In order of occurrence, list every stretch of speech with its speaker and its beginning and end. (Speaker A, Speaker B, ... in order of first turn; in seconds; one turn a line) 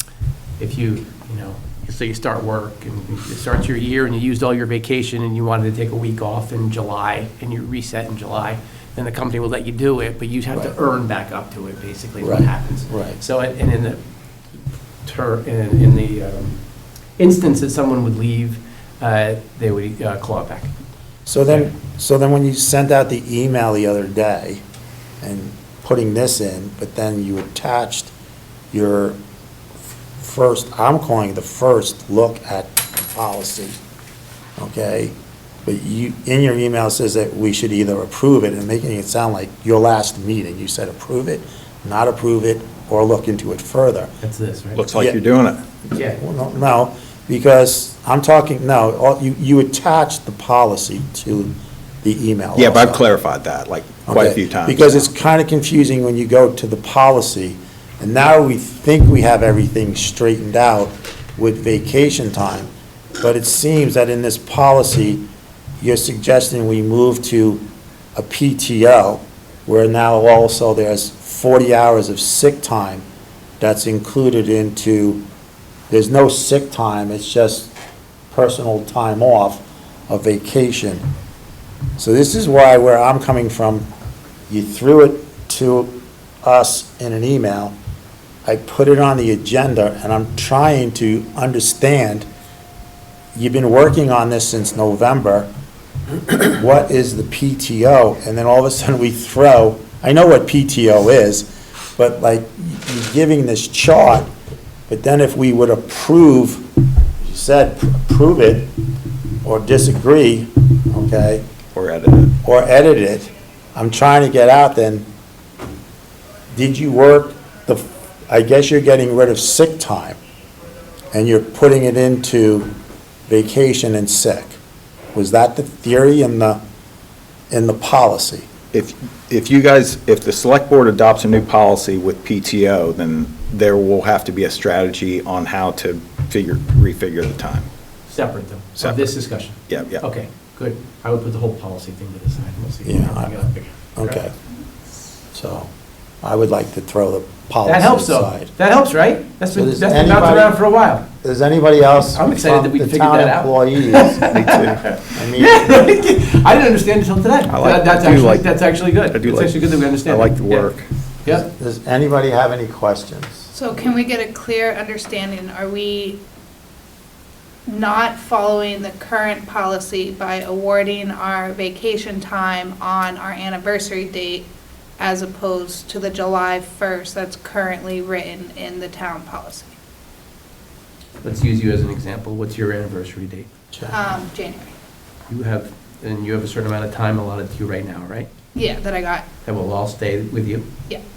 Speaker A: 0.6-14.0
Speaker B: 12.2-13.2
Speaker A: 15.0-16.6
Speaker A: 17.2-20.7
Speaker B: 21.2-24.6
Speaker A: 21.5-21.7
Speaker B: 25.2-28.1
Speaker B: 28.7-29.2
Speaker B: 30.2-33.8
Speaker B: 34.6-35.1
Speaker B: 35.6-44.1
Speaker A: 44.2-44.8
Speaker C: 44.8-45.6
Speaker A: 45.9-46.2
Speaker B: 45.9-53.0
Speaker C: 52.5-55.0
Speaker B: 54.1-65.3
Speaker B: 65.8-73.0
Speaker B: 73.6-75.2
Speaker B: 75.9-77.7
Speaker B: 78.3-81.0
Speaker B: 82.0-83.9
Speaker B: 84.5-87.7
Speaker B: 88.4-92.3
Speaker B: 93.3-95.5
Speaker B: 96.3-104.3
Speaker B: 104.9-106.6
Speaker B: 107.2-108.7
Speaker B: 109.4-111.4
Speaker C: 111.7-112.3
Speaker B: 112.4-115.1
Speaker B: 116.5-120.2
Speaker B: 121.1-122.7
Speaker B: 123.3-124.6
Speaker B: 125.1-126.6
Speaker B: 127.5-128.5
Speaker C: 128.7-137.7
Speaker A: 138.1-144.2
Speaker C: 138.8-139.1
Speaker C: 139.7-140.0
Speaker B: 142.8-143.4
Speaker B: 143.9-144.3
Speaker B: 145.3-145.7
Speaker B: 146.2-148.5
Speaker A: 147.6-151.0
Speaker B: 149.5-150.6
Speaker B: 151.2-154.2
Speaker A: 152.1-160.7
Speaker C: 154.3-155.0
Speaker B: 155.1-155.9
Speaker C: 157.5-160.9
Speaker B: 161.2-163.5
Speaker D: 163.5-166.2
Speaker D: 167.7-174.5
Speaker D: 175.0-179.7
Speaker A: 181.2-183.5
Speaker D: 183.9-184.7
Speaker A: 185.3-188.3
Speaker D: 188.5-189.2
Speaker A: 189.4-190.7